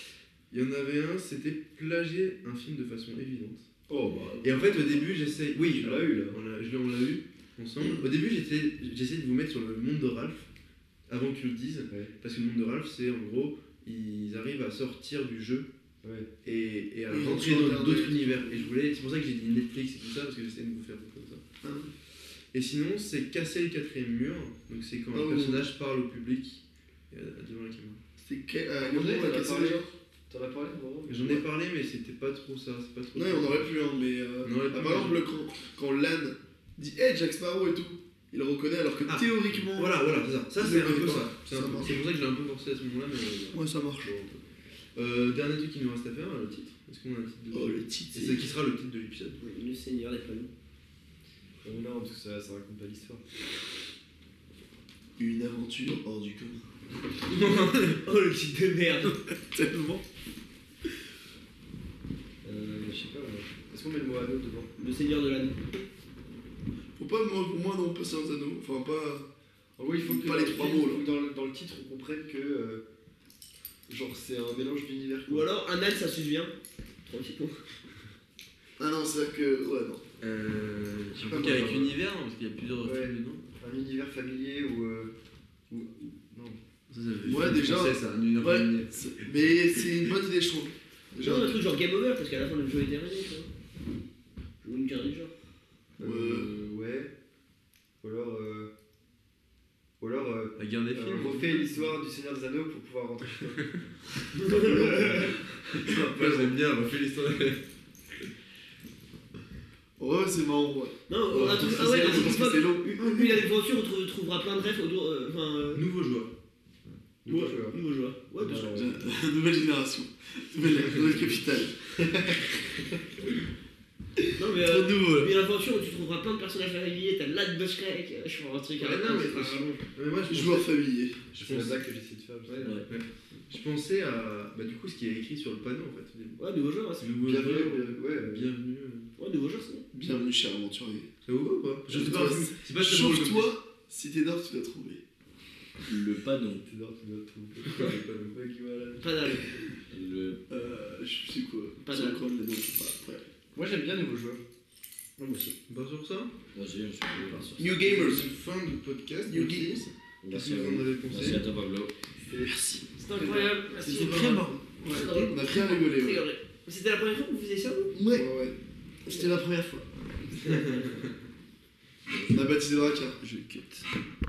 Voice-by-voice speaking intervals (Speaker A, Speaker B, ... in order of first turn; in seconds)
Speaker A: 0.5-3.7, 4.4-10.5, 11.1-15.7, 16.4-21.4, 22.5-28.0, 31.1-33.7, 34.4-35.2, 39.0-44.4, 45.0-49.4, 57.3-58.0, 80.2-83.4, 86.9-88.9, 100.6-102.0, 105.7-107.6, 115.7-116.3, 128.8-130.7, 131.4-131.8, 132.5-136.4, 137.0-139.1, 141.2-143.5, 147.6-148.3, 155.7-156.3, 157.8-161.4, 170.4-171.0
Speaker B: 3.9-6.4, 16.0-16.3, 28.8-31.4, 51.6-53.2, 62.4-64.7, 69.8-72.8, 73.9-75.5, 81.1-82.0, 82.8-85.1, 85.7-86.6, 96.0-97.1, 98.0-98.7, 100.0-103.6, 104.5-105.3, 117.2-117.8, 118.4-119.0, 122.0-122.3, 131.3-132.8, 137.2-138.5, 146.7-149.5, 153.6-154.4, 163.2-163.6
Speaker C: 17.1-18.7, 21.6-21.9, 25.1-25.6, 28.2-29.9, 33.1-40.0, 40.6-42.0, 43.5-44.2, 47.5-48.5, 55.2-56.6, 59.5-60.0, 67.0-69.3, 70.0-71.0, 78.8-80.0, 87.2-91.6, 96.0-96.5, 105.9-106.5, 110.0-113.1, 118.7-121.9, 124.6-125.3, 130.3-131.2, 139.9-141.1, 141.9-145.0, 150.5-153.3, 157.6-158.3, 159.3-159.9, 163.8-166.2, 168.1-168.6, 169.1-169.5, 172.3-173.2
Speaker D: 49.4-50.5, 57.3-59.2, 64.8-65.6, 75.3-76.5, 77.0-77.6, 91.2-93.5, 94.6-95.4, 104.3-105.3, 111.1-115.8, 117.3-118.8, 124.4-129.8, 136.4-137.1, 139.2-139.8, 149.0-149.4, 151.8-152.2, 155.2-155.5, 163.0-164.3, 164.9-168.2, 169.1-169.5, 170.3-171.1
Speaker E: 145.9-146.7, 149.9-150.4, 156.5-158.0, 160.2-161.9, 162.5-162.8, 163.8-165.3, 172.1-172.6, 173.2-173.8